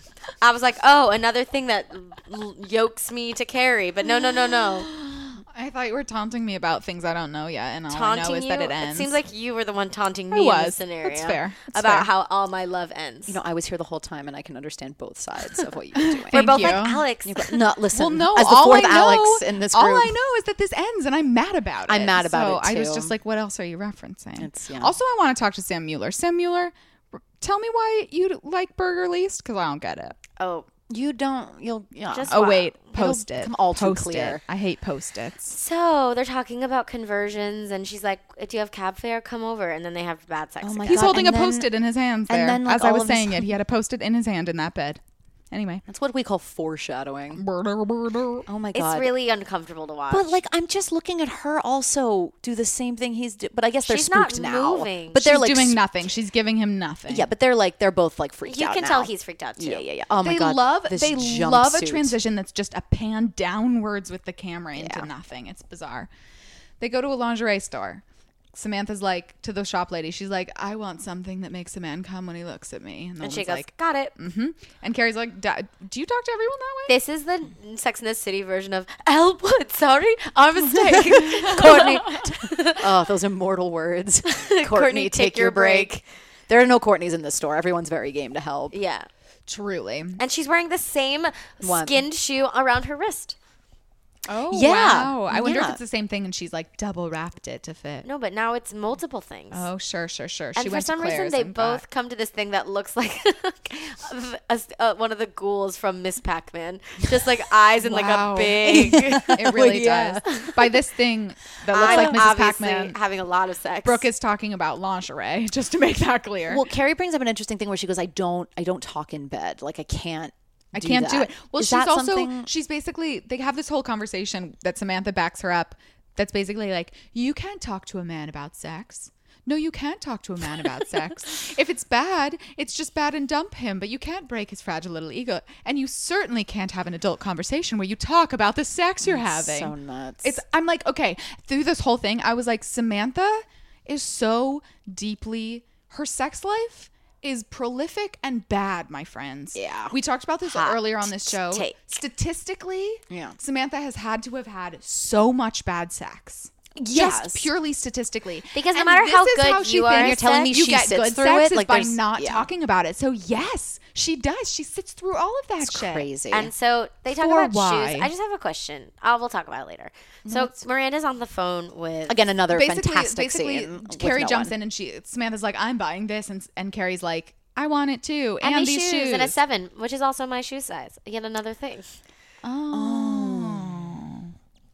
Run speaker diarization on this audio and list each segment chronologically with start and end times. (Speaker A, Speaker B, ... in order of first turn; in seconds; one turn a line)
Speaker A: 0.4-4.9
Speaker B: 4.8-9.2
Speaker A: 7.9-13.4
Speaker B: 10.3-12.1
Speaker C: 13.3-20.1
Speaker B: 16.0-17.1
Speaker A: 16.3-17.6
Speaker B: 17.9-30.2
Speaker C: 21.9-23.1
Speaker C: 24.4-24.9
Speaker A: 30.4-30.7
Speaker C: 30.9-34.4
Speaker A: 32.1-32.9
Speaker B: 32.3-35.5
Speaker A: 35.5-41.3
Speaker C: 40.6-41.7
Speaker B: 40.9-45.8
Speaker C: 42.3-43.6
Speaker C: 45.9-47.4
Speaker B: 47.3-48.5
Speaker C: 48.5-49.1
Speaker A: 48.7-50.4
Speaker C: 50.1-55.8
Speaker A: 53.9-55.2
Speaker B: 55.1-57.3
Speaker C: 57.1-62.2
Speaker A: 58.4-59.8
Speaker B: 60.2-66.1
Speaker C: 64.8-65.1
Speaker B: 66.8-68.0
Speaker B: 68.5-76.9
Speaker A: 73.2-74.1
Speaker A: 76.9-82.8
Speaker C: 80.8-88.7
Speaker B: 80.9-82.3
Speaker A: 84.3-86.0
Speaker A: 88.7-89.1
Speaker B: 89.5-90.2
Speaker A: 90.2-93.3
Speaker C: 91.6-92.0
Speaker B: 94.3-98.0
Speaker C: 94.5-95.8
Speaker A: 98.0-99.7
Speaker B: 99.5-101.8
Speaker A: 100.5-110.6
Speaker B: 107.8-113.0
Speaker C: 108.6-110.6
Speaker C: 111.7-112.2
Speaker A: 111.7-114.1
Speaker B: 113.8-116.6
Speaker C: 116.5-122.5
Speaker B: 120.7-166.1
Speaker C: 139.0-140.4
Speaker C: 149.5-149.9
Speaker A: 150.4-151.8
Speaker C: 153.1-153.4
Speaker C: 156.8-157.5
Speaker A: 158.5-160.5
Speaker C: 159.9-162.5
Speaker C: 165.6-166.5
Speaker A: 166.3-172.3
Speaker B: 167.1-168.1
Speaker C: 170.2-170.5
Speaker C: 172.1-174.5
Speaker B: 172.5-179.3
Speaker A: 178.4-182.0
Speaker B: 182.4-184.3
Speaker C: 182.7-184.1